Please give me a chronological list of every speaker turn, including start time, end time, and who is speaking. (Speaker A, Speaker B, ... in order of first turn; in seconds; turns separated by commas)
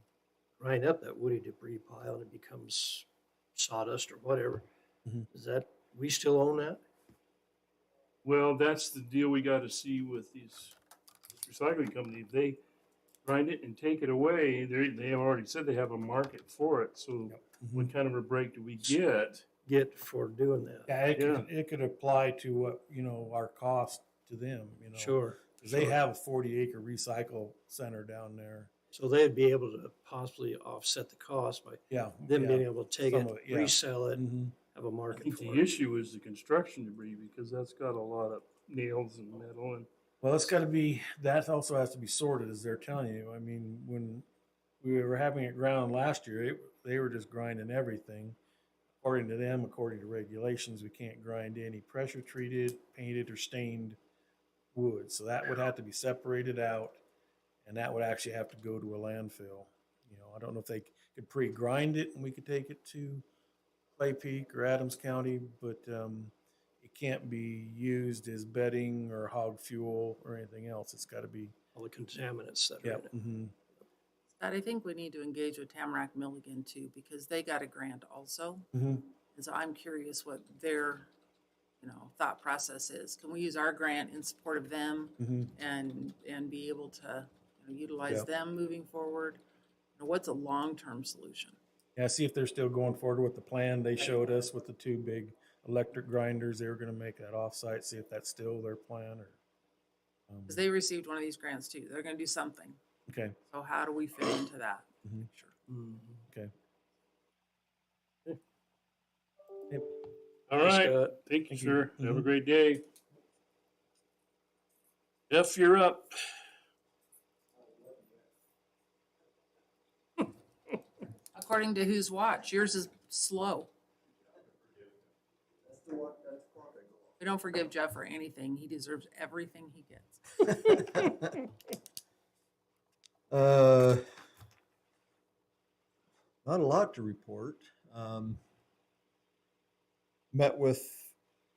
Speaker A: 0.6-4.7, Speaker A: 5.3-6.8, Speaker B: 8.2-10.8, Speaker B: 11.3-12.6, Speaker B: 13.2-19.4, Speaker C: 17.6-17.9, Speaker A: 19.6-20.9, Speaker C: 20.9-28.7, Speaker B: 21.1-21.5, Speaker A: 24.9-26.0, Speaker A: 28.9-35.6, Speaker C: 31.9-34.6, Speaker B: 35.1-39.9, Speaker C: 40.2-44.2, Speaker C: 44.8-48.4, Speaker C: 49.0-54.0, Speaker C: 54.7-57.0, Speaker C: 57.6-63.2, Speaker C: 64.0-71.5, Speaker A: 71.7-73.1, Speaker C: 72.8-73.5, Speaker D: 74.3-78.7, Speaker C: 78.7-79.1, Speaker D: 79.2-81.1, Speaker D: 81.8-89.4, Speaker C: 85.2-85.5, Speaker D: 90.0-91.6, Speaker C: 92.0-99.4, Speaker C: 100.3-100.6, Speaker D: 100.5-102.8, Speaker C: 103.1-103.4, Speaker D: 103.5-105.5, Speaker C: 105.0-105.3, Speaker A: 105.7-106.1, Speaker B: 110.5-112.8, Speaker A: 110.6-111.2, Speaker C: 111.5-112.3, Speaker B: 115.3-116.2, Speaker E: 117.7-118.1, Speaker D: 121.3-123.7, Speaker E: 125.7-127.1, Speaker D: 127.2-130.8, Speaker E: 130.7-131.2, Speaker E: 133.3-134.0, Speaker E: 136.4-138.4, Speaker E: 140.3-141.1